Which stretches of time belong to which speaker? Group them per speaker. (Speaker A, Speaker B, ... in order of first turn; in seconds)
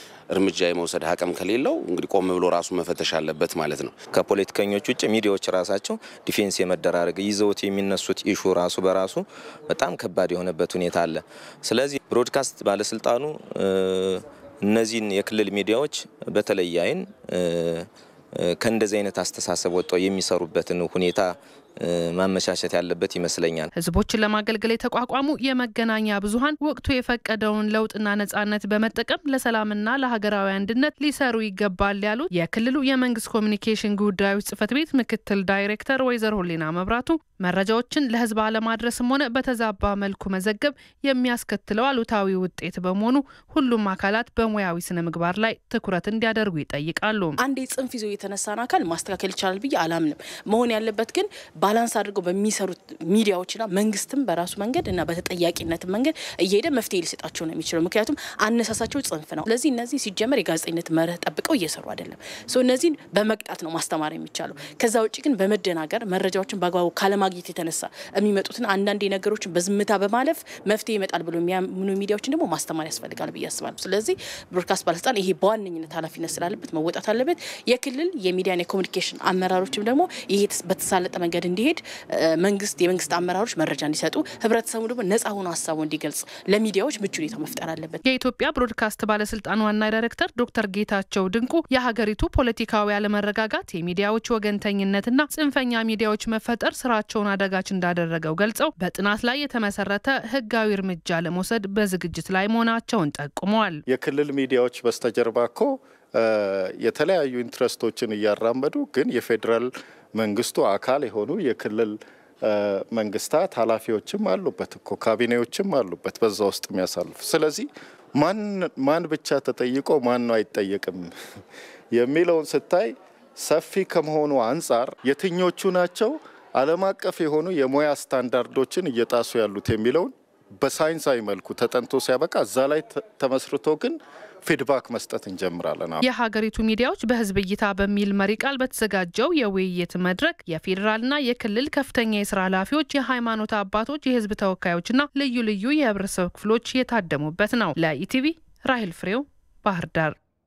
Speaker A: 0.3-4.0
Speaker B: 4.1-23.7
Speaker C: 23.8-47.4, 88.0-103.8, 136.0-150.2
Speaker D: 47.4-88.0
Speaker E: 103.9-121.1, 121.9-136.0